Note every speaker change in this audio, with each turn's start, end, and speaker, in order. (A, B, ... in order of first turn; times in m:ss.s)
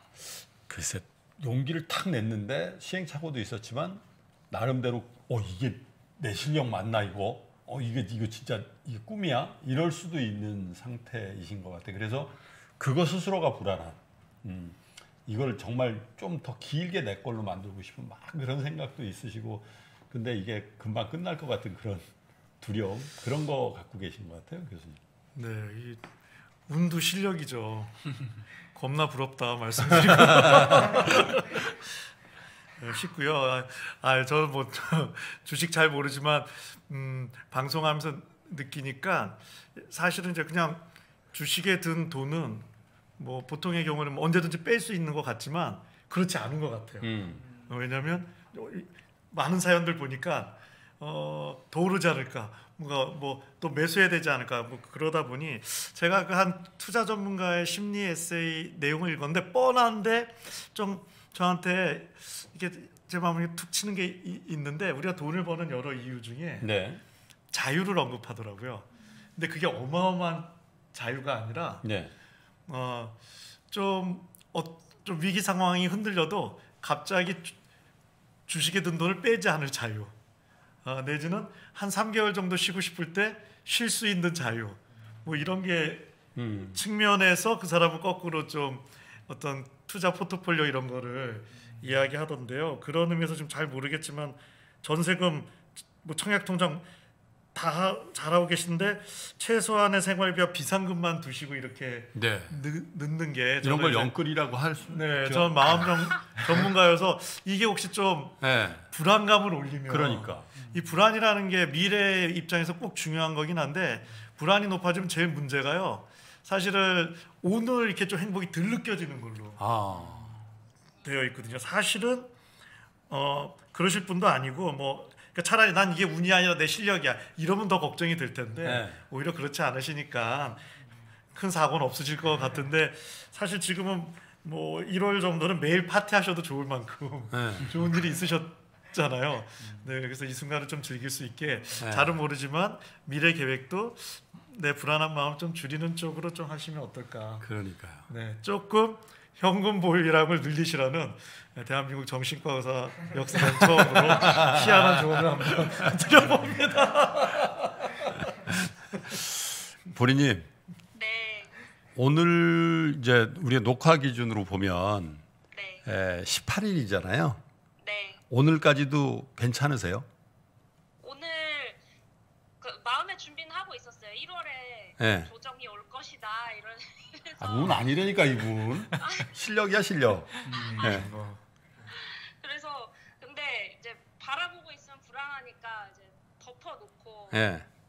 0:00.2-0:25.0 A
0:25.4-0:26.1 B
0:26.7-0:31.7 B
0:30.1-0:30.9 A
0:32.8-1:06.7 B
0:47.0-0:47.4 A
1:06.6-1:07.0 A
1:07.5-1:11.9 B
1:11.8-1:12.1 A
1:12.7-1:17.6 B
1:18.5-1:20.1 B
1:20.8-1:26.1 B
1:26.4-1:26.8 A
1:26.7-1:36.9 B
1:37.5-1:44.2 B
1:42.2-1:42.6 A
1:43.6-1:46.6 A
1:44.9-2:00.2 B
1:48.4-1:48.9 A
1:49.9-1:50.6 A
1:59.6-2:00.4 A
2:01.0-2:02.3 B
2:03.1-2:10.7 B
2:08.6-2:09.0 A
2:11.3-2:27.5 B
2:17.3-2:17.8 A
2:21.8-2:22.2 A
2:27.4-2:28.1 A
2:28.1-2:38.2 B
2:33.5-2:36.2 A
2:38.5-2:40.5 A
2:40.9-2:41.6 C
2:42.0-2:45.3 A
2:45.5-2:45.8 C
2:45.8-2:47.4 A
2:47.8-2:48.2 C
2:48.3-2:50.1 A
2:51.0-2:51.8 C
2:52.6-2:58.3 C
2:55.0-2:55.3 A
2:57.4-3:01.1 A
2:59.0-2:59.3 C
3:00.5-3:01.4 B
3:00.5-3:01.1 C
3:01.9-3:07.5 C
3:07.3-3:07.7 A